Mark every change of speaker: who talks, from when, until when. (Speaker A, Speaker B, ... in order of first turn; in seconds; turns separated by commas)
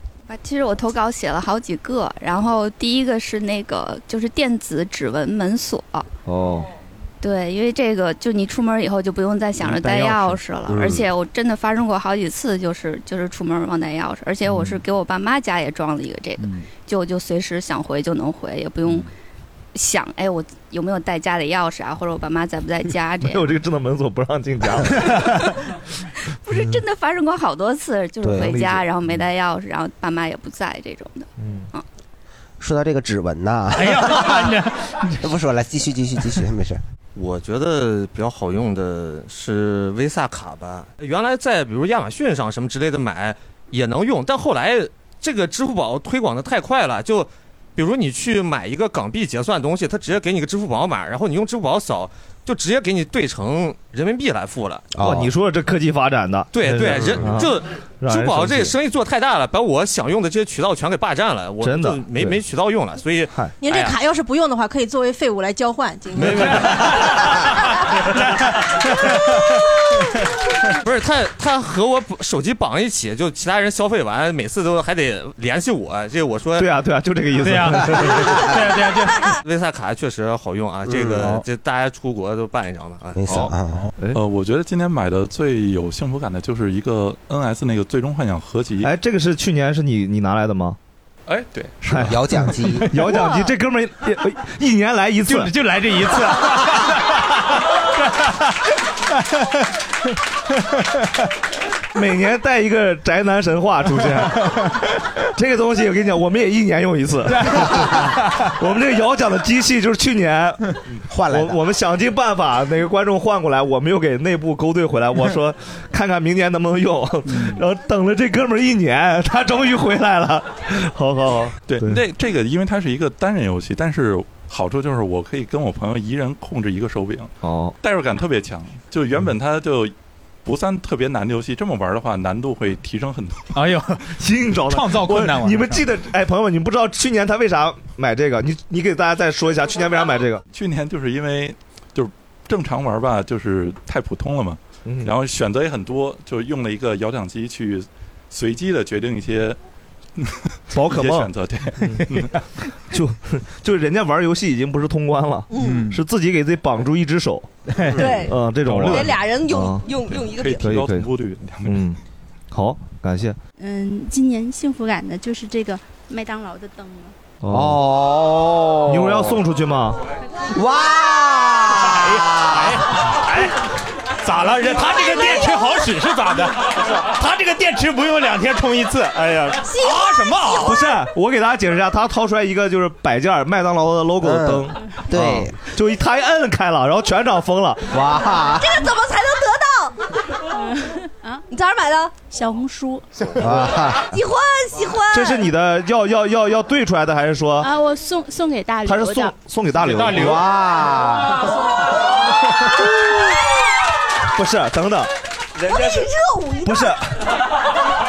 Speaker A: 0.3-6.1, Speaker B: 6.2-6.7, Speaker A: 7.2-19.1, Speaker C: 10.7-11.1, Speaker B: 14.5-14.8, Speaker A: 19.7-23.4, Speaker B: 23.2-25.3, Speaker A: 26.4-31.8, Speaker B: 26.5-26.8, Speaker C: 28.2-28.6, Speaker B: 28.4-29.1, Speaker B: 31.4-31.7, Speaker C: 32.6-34.5, Speaker D: 33.7-34.9, Speaker C: 35.2-36.8, Speaker E: 37.1-54.8, Speaker C: 54.9-55.3, Speaker B: 55.0-58.8, Speaker E: 56.5-64.0, Speaker C: 57.0-57.3, Speaker B: 61.6-62.4, Speaker F: 63.6-66.6, Speaker E: 66.2-66.5, Speaker D: 66.3-67.2, Speaker E: 70.8-76.7, Speaker B: 76.6-78.4, Speaker D: 77.4-79.2, Speaker E: 79.4-83.4, Speaker C: 80.8-81.4, Speaker C: 83.1-83.9, Speaker G: 84.1-88.9, Speaker B: 88.8-90.8, Speaker G: 91.3-92.1, Speaker B: 91.8-95.5, Speaker C: 92.0-92.9, Speaker D: 93.0-93.3, Speaker D: 95.3-97.0, Speaker B: 101.9-122.0, Speaker D: 107.4-107.7, Speaker C: 111.1-111.6, Speaker G: 121.7-129.9, Speaker B: 127.4-127.7, Speaker G: 130.4-133.6, Speaker D: 133.5-134.1, Speaker B: 134.2-140.4, Speaker D: 134.7-135.8, Speaker G: 140.5-149.6, Speaker B: 144.8-145.1, Speaker B: 150.7-151.3, Speaker G: 150.7-152.3, Speaker B: 152.9-157.5, Speaker H: 155.5-155.8, Speaker D: 155.6-156.0, Speaker D: 157.7-158.1, Speaker H: 158.0-158.3, Speaker B: 158.2-159.9, Speaker G: 158.6-159.2, Speaker H: 158.8-160.6, Speaker G: 160.0-161.8, Speaker B: 160.6-161.1, Speaker B: 161.6-162.0, Speaker B: 162.5-163.4, Speaker I: 163.6-167.1, Speaker B: 167.4-167.8, Speaker C: 167.5-169.3, Speaker B: 168.9-170.0, Speaker C: 170.5-172.7, Speaker D: 171.9-173.5, Speaker D: 174.2-180.8, Speaker H: 179.7-180.0, Speaker B: 180.6-188.0, Speaker C: 184.2-185.5, Speaker C: 187.9-188.7, Speaker H: 188.6-190.0, Speaker I: 190.5-191.4, Speaker H: 191.5-192.2, Speaker I: 192.3-193.0, Speaker C: 193.4-194.0, Speaker H: 194.1-195.5, Speaker B: 195.1-197.7, Speaker I: 197.6-199.3, Speaker B: 198.8-200.4, Speaker D: 199.8-200.4, Speaker C: 200.1-201.3, Speaker B: 204.3-206.0, Speaker H: 205.6-206.9, Speaker B: 206.6-207.0